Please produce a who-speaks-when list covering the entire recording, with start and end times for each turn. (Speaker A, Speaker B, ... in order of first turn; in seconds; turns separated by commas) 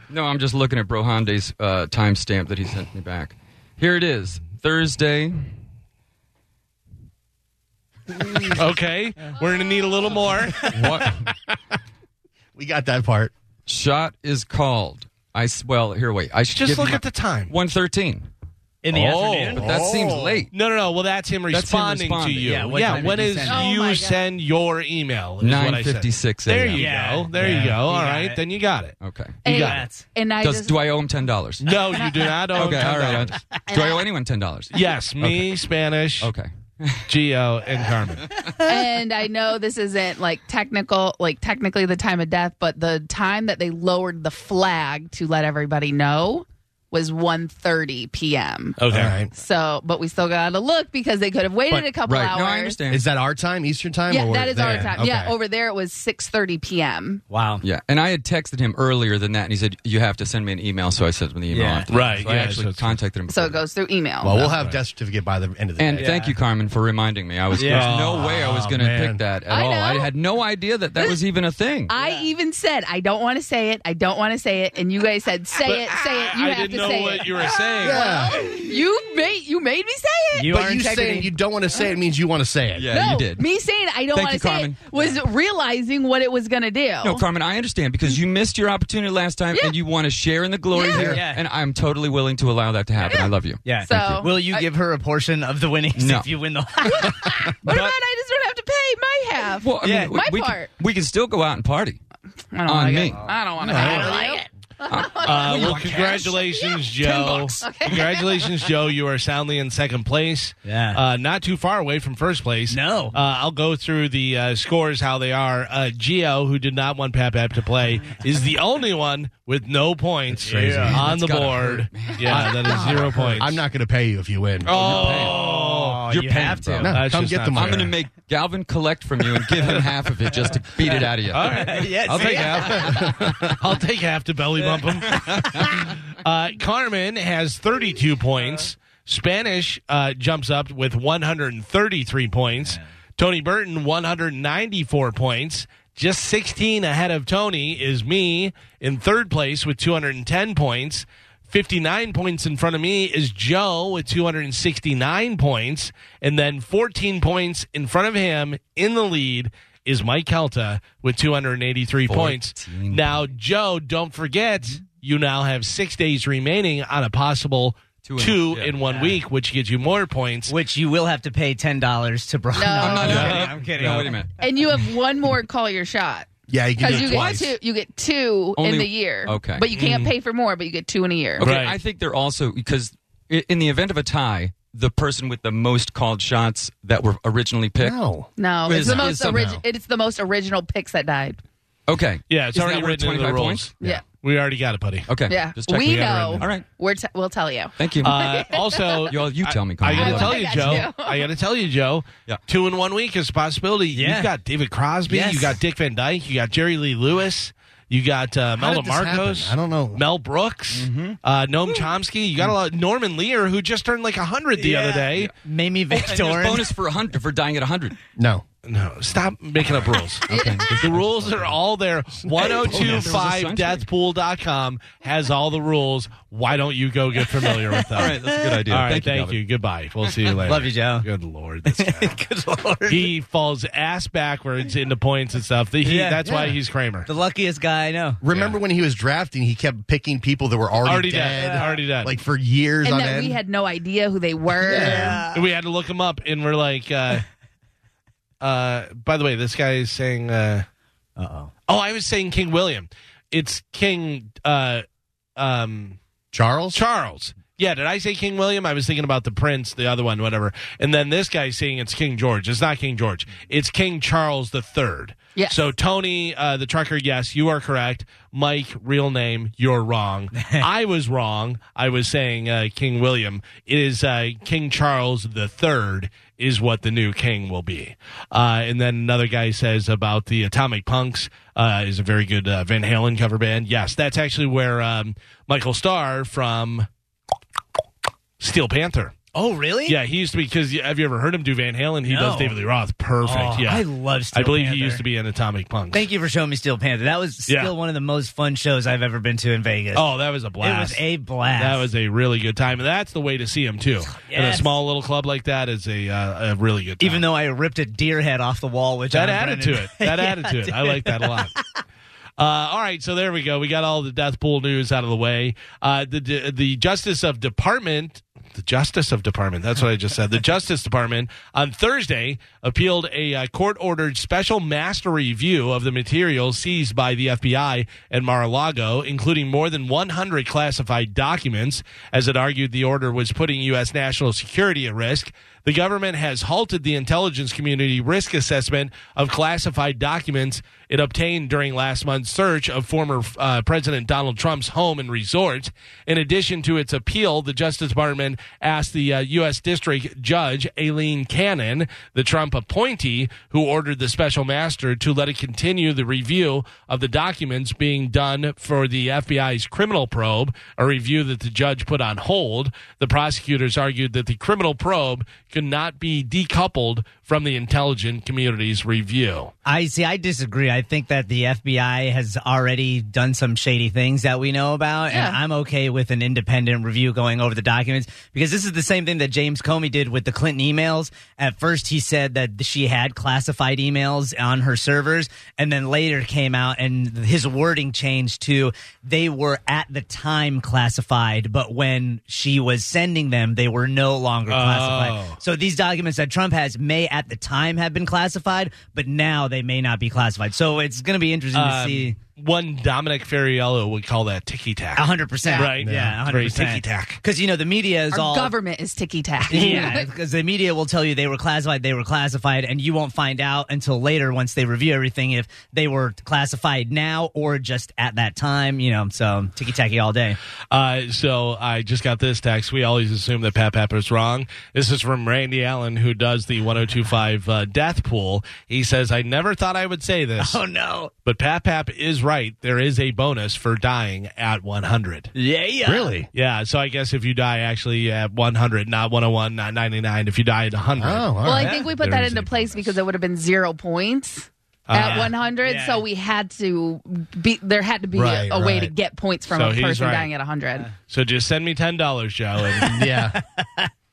Speaker A: 0.1-5.4, Speaker B: 8.5-10.8, Speaker A: 10.7-11.2, Speaker C: 12.6-13.3, Speaker A: 13.7-18.3, Speaker B: 16.5-17.5, Speaker D: 18.8-19.8, Speaker B: 18.9-19.6, Speaker A: 19.5-20.5, Speaker C: 19.6-20.4, Speaker B: 20.5-29.8, Speaker A: 21.5-23.1, Speaker D: 22.4-23.7, Speaker E: 23.4-24.2, Speaker A: 25.4-26.9, Speaker D: 26.6-28.4, Speaker A: 29.0-29.5, Speaker E: 29.4-30.8, Speaker D: 29.5-30.0, Speaker A: 30.4-31.7, Speaker B: 31.6-33.3, Speaker E: 31.9-32.4, Speaker A: 32.5-35.5, Speaker D: 32.8-33.6, Speaker E: 33.7-34.0, Speaker B: 34.7-36.3, Speaker A: 36.2-37.1, Speaker B: 37.1-38.3, Speaker D: 38.4-38.8, Speaker E: 38.6-48.8, Speaker B: 48.8-49.1, Speaker C: 48.9-49.3, Speaker E: 49.3-52.8, Speaker A: 51.7-53.0, Speaker C: 52.9-55.3, Speaker E: 54.1-57.2, Speaker D: 54.6-54.9, Speaker D: 57.3-57.6, Speaker A: 57.6-63.6, Speaker D: 61.5-62.0, Speaker B: 61.9-63.0, Speaker E: 63.3-64.4, Speaker C: 64.2-66.1, Speaker B: 64.4-64.8, Speaker A: 65.8-71.9, Speaker D: 65.9-66.4, Speaker D: 67.5-68.0, Speaker B: 67.6-68.0, Speaker C: 67.8-69.2, Speaker E: 69.5-70.1, Speaker E: 71.9-80.9, Speaker D: 72.0-72.2, Speaker B: 75.6-78.2, Speaker C: 77.8-78.5, Speaker D: 80.3-81.3, Speaker C: 80.5-82.9, Speaker A: 82.8-83.4, Speaker E: 82.9-87.2, Speaker A: 84.1-84.9, Speaker A: 87.0-94.2, Speaker E: 90.7-91.1, Speaker D: 91.0-91.4, Speaker D: 93.6-97.5, Speaker E: 93.8-94.7, Speaker A: 96.0-96.3, Speaker E: 96.8-100.7, Speaker A: 97.6-97.9, Speaker A: 99.6-102.0, Speaker D: 99.8-100.2, Speaker E: 102.5-108.4, Speaker A: 102.7-103.2, Speaker D: 103.2-104.5, Speaker C: 103.6-104.2, Speaker A: 104.9-105.8, Speaker B: 105.2-123.6, Speaker D: 105.4-106.3, Speaker D: 110.7-111.0, Speaker D: 112.7-113.2, Speaker C: 120.4-121.0, Speaker D: 120.4-121.1, Speaker A: 120.7-123.2, Speaker C: 122.3-124.7, Speaker B: 124.6-126.0, Speaker A: 124.7-125.4, Speaker D: 124.7-127.0, Speaker A: 126.1-127.0, Speaker C: 126.8-127.9, Speaker B: 126.9-127.9, Speaker A: 127.5-133.5, Speaker D: 130.3-133.1, Speaker B: 131.3-170.5, Speaker C: 132.8-133.5, Speaker D: 134.6-135.9, Speaker A: 135.1-135.6, Speaker A: 162.1-163.3, Speaker A: 168.0-168.8, Speaker D: 168.9-169.2, Speaker D: 170.5-174.2, Speaker E: 172.5-173.4, Speaker A: 172.7-174.3, Speaker B: 173.1-173.5, Speaker E: 174.4-181.5, Speaker C: 176.5-177.5, Speaker A: 176.9-177.3, Speaker A: 178.6-179.7, Speaker B: 179.7-180.1, Speaker A: 181.4-188.0, Speaker B: 181.4-181.8, Speaker C: 187.8-189.1, Speaker E: 188.4-191.4, Speaker A: 188.7-189.6, Speaker A: 191.9-194.0, Speaker B: 192.3-195.1, Speaker A: 195.1-196.6, Speaker E: 195.3-199.1, Speaker B: 195.9-196.5, Speaker A: 197.8-198.2, Speaker B: 198.0-215.3, Speaker A: 199.1-200.9, Speaker E: 199.9-201.3, Speaker D: 203.9-204.3, Speaker D: 205.1-205.6, Speaker C: 208.6-210.0, Speaker A: 210.7-211.2, Speaker D: 214.6-216.7, Speaker A: 215.9-217.9, Speaker C: 218.2-218.4, Speaker B: 218.6-232.1, Speaker A: 220.3-221.5, Speaker E: 220.3-220.7, Speaker A: 222.5-223.8, Speaker D: 227.3-228.7, Speaker A: 227.9-229.4, Speaker D: 230.4-231.1, Speaker D: 231.7-233.1, Speaker B: 232.9-237.1, Speaker D: 235.8-236.3, Speaker C: 236.2-236.6, Speaker D: 237.1-238.2, Speaker C: 238.2-243.4, Speaker B: 238.3-238.6, Speaker B: 240.8-242.1, Speaker D: 241.3-241.8, Speaker E: 242.8-245.2, Speaker C: 244.6-245.2, Speaker D: 244.7-245.4, Speaker B: 245.3-247.2, Speaker B: 248.4-250.6, Speaker D: 251.2-251.5, Speaker B: 251.7-254.8, Speaker B: 255.4-256.0, Speaker C: 256.3-256.8, Speaker B: 256.7-286.9, Speaker E: 265.4-265.6, Speaker D: 270.4-270.7, Speaker B: 288.4-289.1, Speaker D: 289.4-290.0, Speaker B: 289.9-296.1, Speaker D: 292.1-292.6, Speaker D: 293.2-295.0, Speaker D: 295.9-300.1, Speaker B: 297.5-297.7, Speaker B: 299.9-301.0, Speaker D: 300.6-301.9, Speaker B: 301.6-307.2, Speaker D: 304.1-304.7, Speaker D: 307.0-311.5, Speaker B: 309.1-311.5, Speaker B: 312.4-369.5, Speaker D: 369.6-402.1, Speaker E: 375.1-375.4, Speaker B: 394.5-395.4, Speaker B: 401.5-407.2, Speaker D: 404.9-408.5, Speaker E: 405.4-405.7, Speaker C: 405.8-406.2, Speaker E: 408.1-410.1, Speaker D: 409.5-420.4, Speaker B: 409.5-410.0, Speaker B: 420.7-430.6, Speaker D: 430.4-431.1, Speaker B: 431.2-435.3, Speaker D: 435.4-436.1, Speaker C: 435.8-436.3, Speaker B: 436.3-441.4, Speaker C: 441.0-441.7, Speaker E: 441.4-450.9, Speaker D: 441.5-441.9, Speaker B: 442.0-442.9, Speaker B: 444.9-445.3, Speaker D: 444.9-446.0, Speaker C: 448.1-448.9, Speaker B: 449.5-450.3, Speaker B: 451.1-453.0, Speaker D: 452.6-453.9, Speaker C: 452.8-453.4